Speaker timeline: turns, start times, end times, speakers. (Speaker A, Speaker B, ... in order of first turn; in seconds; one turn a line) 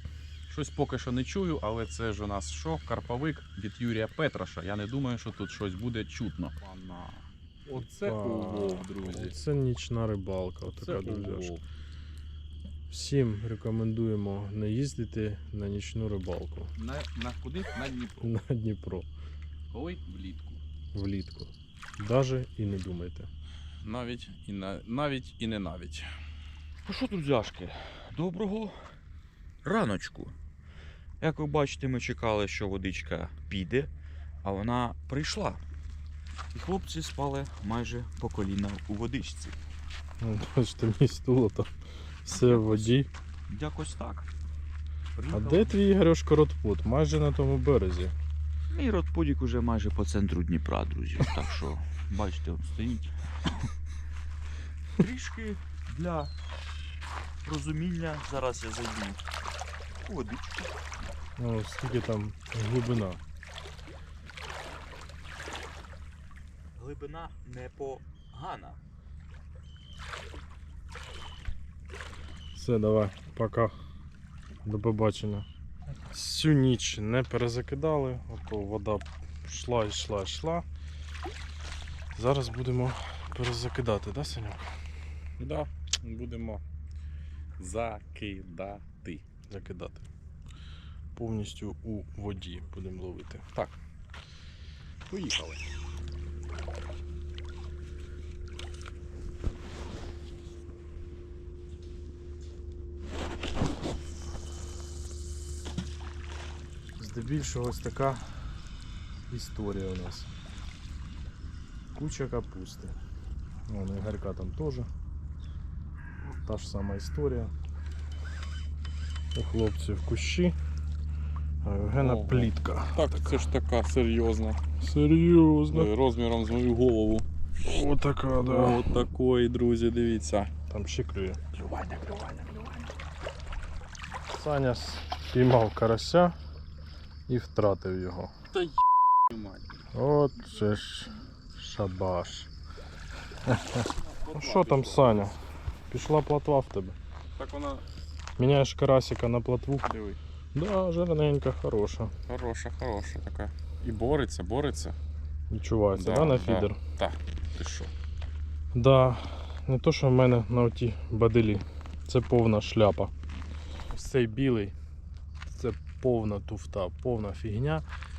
Speaker A: 0.5-9.3
Speaker B: 7.8-11.5
Speaker A: 10.8-11.6
Speaker B: 12.9-16.7
Speaker A: 16.8-18.3
Speaker B: 18.2-19.1
Speaker A: 19.7-20.6
Speaker B: 20.9-23.3
Speaker A: 23.8-26.1
Speaker C: 26.9-28.8
Speaker C: 29.6-30.3
Speaker C: 31.2-33.9
Speaker C: 34.4-35.6
Speaker C: 36.5-39.6
Speaker B: 40.2-41.7
Speaker B: 42.2-43.1
Speaker C: 42.3-43.0
Speaker C: 43.5-44.3
Speaker C: 45.1-45.9
Speaker B: 45.3-48.1
Speaker C: 48.7-53.7
Speaker C: 55.0-56.3
Speaker C: 57.4-59.2
Speaker C: 60.0-60.8
Speaker B: 61.4-63.2
Speaker C: 66.8-68.8
Speaker B: 72.5-73.7
Speaker B: 74.6-75.5
Speaker B: 76.1-80.6
Speaker B: 82.1-84.7
Speaker A: 85.4-86.6
Speaker A: 87.6-89.2
Speaker B: 89.5-90.0
Speaker B: 91.2-93.4
Speaker A: 95.1-95.6
Speaker B: 107.0-108.3
Speaker B: 109.3-110.3
Speaker B: 111.9-113.0
Speaker B: 113.7-114.9
Speaker B: 116.4-117.5
Speaker B: 119.3-120.5
Speaker B: 121.6-123.3
Speaker A: 122.0-124.6
Speaker B: 124.8-125.9
Speaker A: 125.7-127.2
Speaker B: 127.6-128.9
Speaker A: 128.4-130.5
Speaker B: 130.7-131.4
Speaker A: 131.6-132.7
Speaker B: 134.3-136.3
Speaker B: 137.3-138.3
Speaker A: 139.3-139.6
Speaker B: 139.9-142.5
Speaker B: 143.4-145.4
Speaker A: 143.8-145.4
Speaker B: 145.9-146.9
Speaker A: 147.3-147.8
Speaker B: 148.4-149.9
Speaker A: 149.8-150.2
Speaker B: 150.5-152.1
Speaker A: 152.3-154.9
Speaker B: 155.5-156.8
Speaker A: 155.9-157.9
Speaker B: 158.7-163.1
Speaker B: 163.9-164.7
Speaker B: 165.5-167.8